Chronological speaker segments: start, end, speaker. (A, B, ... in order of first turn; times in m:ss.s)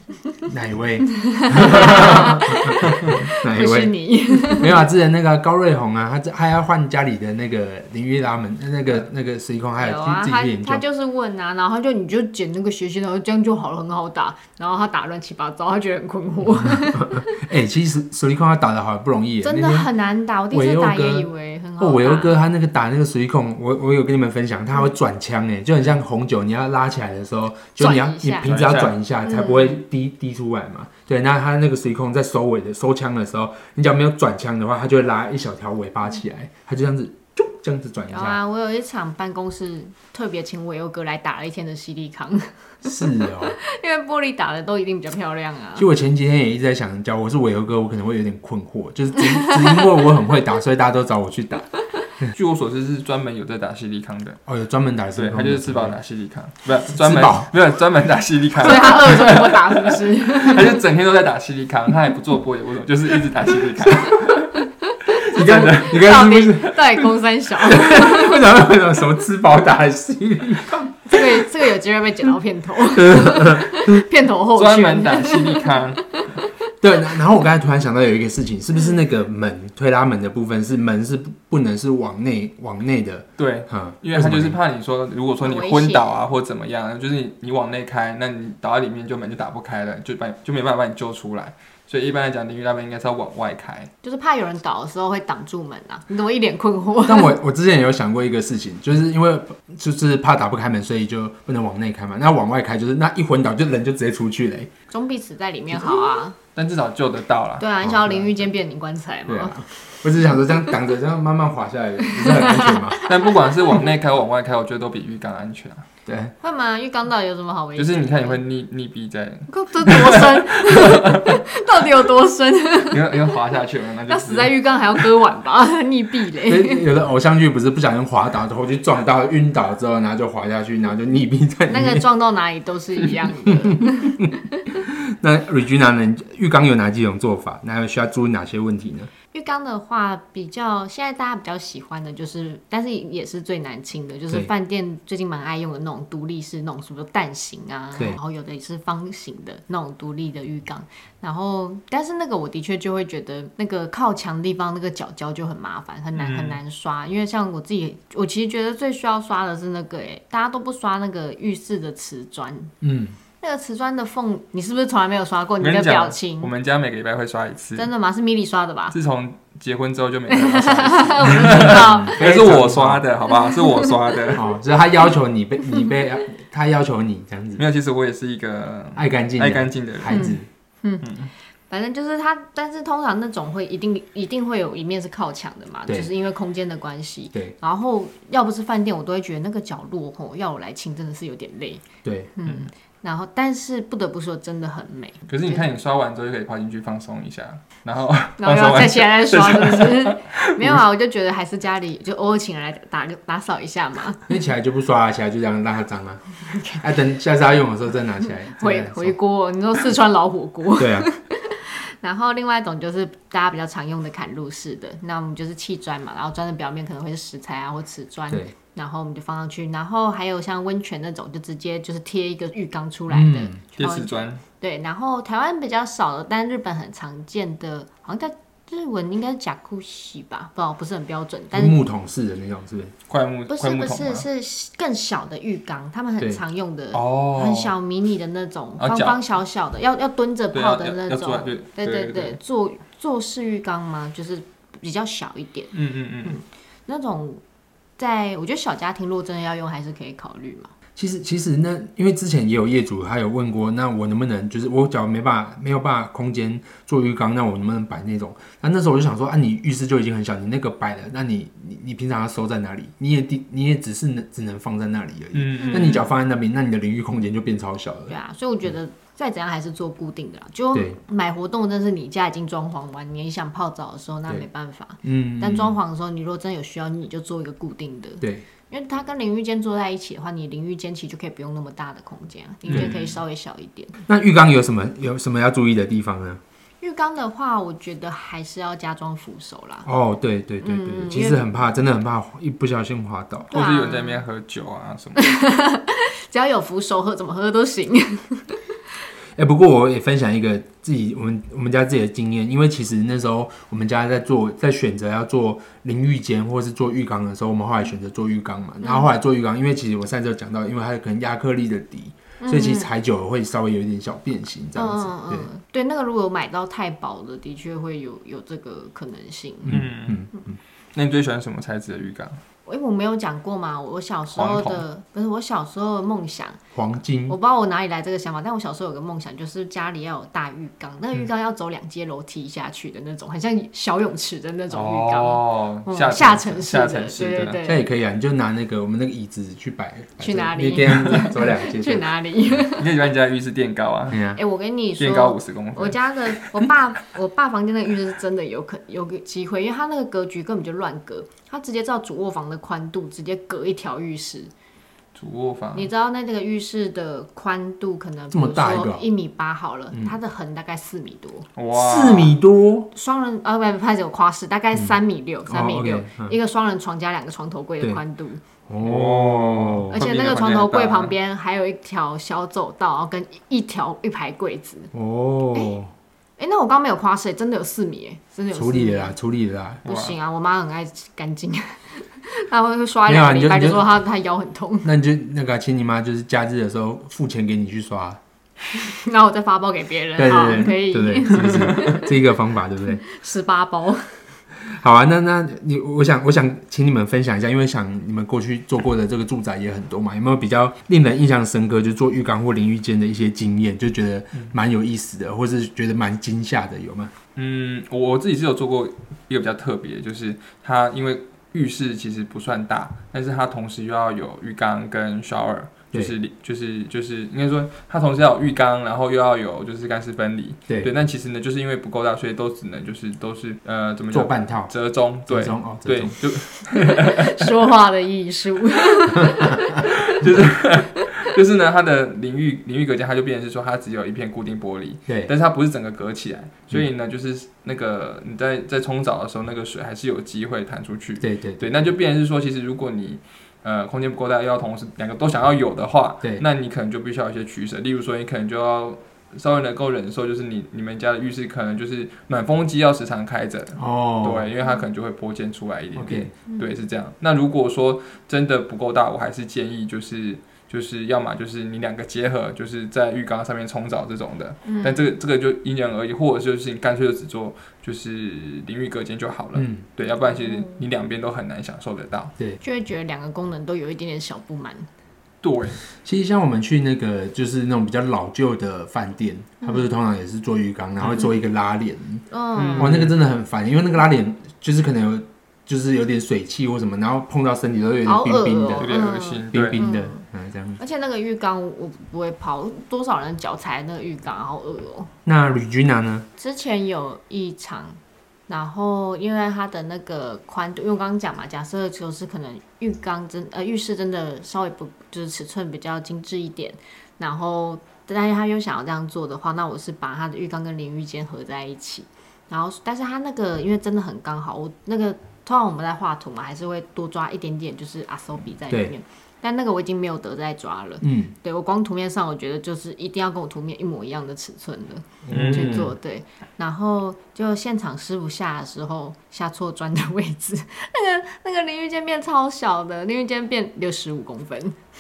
0:00.4-0:10.8 A
0:01.1-0:04.8 B
0:02.9-0:03.2 C
0:09.8-0:17.4 B
0:16.6-0:19.9 A
0:19.4-0:22.4 B
0:20.5-0:38.4 A
0:27.8-0:28.5 B
0:28.4-0:29.0 C
0:29.2-0:29.8 B
0:38.1-0:45.9 B
0:42.8-0:43.6 A
0:45.8-0:51.7 A
0:49.2-0:49.9 B
0:52.3-0:54.4 C
0:54.5-0:56.0 A
0:55.1-1:06.0 C
0:56.9-0:57.5 A
0:58.6-1:00.8 B
1:05.1-1:08.5 B
1:05.3-1:11.6 A
1:11.1-1:16.5 B
1:12.9-1:14.0 A
1:14.5-1:16.0 C
1:16.8-1:24.6 A
1:23.4-1:33.9 C
1:25.4-1:26.2 B
1:34.0-1:37.3 B
1:37.0-1:44.7 A
1:44.9-1:46.4 B
1:45.7-1:46.2 A
1:46.5-1:47.7 C
1:47.6-1:49.6 B
1:47.8-1:48.4 A
1:49.2-1:53.0 A
1:52.0-1:53.2 B
1:53.0-1:55.8 C
1:56.0-1:56.3 A
1:56.4-1:58.4 B
1:57.8-2:01.4 C
1:59.5-2:03.4 B
2:02.9-2:05.0 C
2:04.1-2:06.9 B
2:06.4-2:12.0 A
2:11.7-2:14.7 B
2:13.5-2:19.1 A
2:19.3-2:42.7 B
2:27.9-2:28.2 A
2:36.1-2:36.6 C
2:42.8-2:43.2 A
2:43.4-2:46.5 B
2:45.6-2:47.9 C
2:47.8-2:48.9 B
2:48.9-2:54.4 C
2:50.3-2:52.2 B
2:51.2-2:53.0 A
2:53.3-2:53.9 B
2:54.3-2:57.6 A
2:57.6-3:00.2 C
2:59.0-3:00.5 A
3:00.1-3:01.1 B
3:01.0-3:01.3 C
3:01.7-3:15.7 B
3:05.9-3:06.1 A
3:12.0-3:12.3 A
3:15.3-3:20.7 C
3:18.4-3:24.2 B
3:24.3-3:29.2 A
3:28.5-3:51.8 B
3:30.8-3:31.1 A
3:43.1-3:43.6 A
3:43.8-3:44.4 C
3:51.5-3:52.9 A
3:53.1-3:54.2 C
3:53.5-4:07.4 B
3:56.9-3:57.7 C
3:58.8-3:59.2 C
4:00.5-4:02.4 C
4:05.7-4:06.4 C
4:08.0-4:10.7 B
4:11.0-4:28.2 A
4:25.3-4:26.0 C
4:25.6-4:26.0 B
4:28.1-4:44.0 B
4:30.7-4:31.0 A
4:35.0-4:35.8 A
4:42.7-4:43.0 A
4:42.7-4:43.1 C
4:44.0-4:46.4 A
4:46.8-4:49.9 B
4:49.8-4:53.5 A
4:50.6-4:51.5 B
4:53.5-4:54.2 B
4:53.5-4:55.4 C
4:55.2-4:58.6 B
4:59.4-5:15.5 A
5:08.8-5:09.1 B
5:12.4-5:12.9 B
5:14.7-5:19.8 B
5:19.6-5:20.6 A
5:19.7-5:20.3 C
5:20.9-5:22.4 C
5:22.6-5:26.6 B
5:24.4-5:24.8 A
5:24.4-5:24.8 C
5:26.7-5:27.4 A
5:27.3-5:37.8 B
5:34.7-5:37.6 C
5:37.6-5:42.5 A
5:40.2-5:43.0 B
5:42.7-5:44.2 C
5:44.1-5:44.4 A
5:44.3-5:54.5 B
5:45.0-5:46.7 C
5:55.1-5:55.9 C
5:55.7-6:01.5 B
5:58.3-5:59.0 A
5:59.9-6:00.2 A
6:01.6-6:02.3 C
6:01.7-6:02.9 A
6:02.9-6:08.4 B
6:04.7-6:06.3 A
6:08.7-6:10.0 A
6:08.8-6:11.1 C
6:09.9-6:14.9 B
6:14.9-6:15.9 A
6:16.4-6:19.2 B
6:18.5-6:19.8 A
6:19.8-6:20.2 C
6:19.8-6:24.9 B
6:23.0-6:24.0 A
6:24.8-6:28.2 A
6:28.7-6:32.2 B
6:30.2-6:33.0 A
6:33.0-6:34.0 B
6:34.6-6:47.1 A
6:47.4-7:07.4 C
7:04.1-7:04.7 A
7:05.3-7:06.2 A
7:06.7-7:09.9 B
7:09.3-7:09.6 A
7:09.7-7:52.3 C
7:15.1-7:15.3 A
7:21.2-7:21.8 A
7:33.8-7:34.5 A
7:35.9-7:36.3 A
7:36.5-7:36.8 B
7:44.6-7:45.1 B
7:49.5-7:49.8 A
7:50.2-7:50.8 B
7:52.6-7:54.9 B
7:55.4-7:55.8 C
7:56.0-8:09.0 A
7:59.6-7:59.9 B
8:02.3-8:03.0 B
8:02.6-8:03.1 C
8:08.0-8:10.2 B
8:08.8-8:09.9 C
8:09.5-8:10.8 A
8:10.8-8:15.1 B
8:15.2-8:16.3 A
8:16.4-8:54.7 B
8:41.0-8:41.3 A
8:45.2-8:46.0 A
8:45.3-8:45.9 C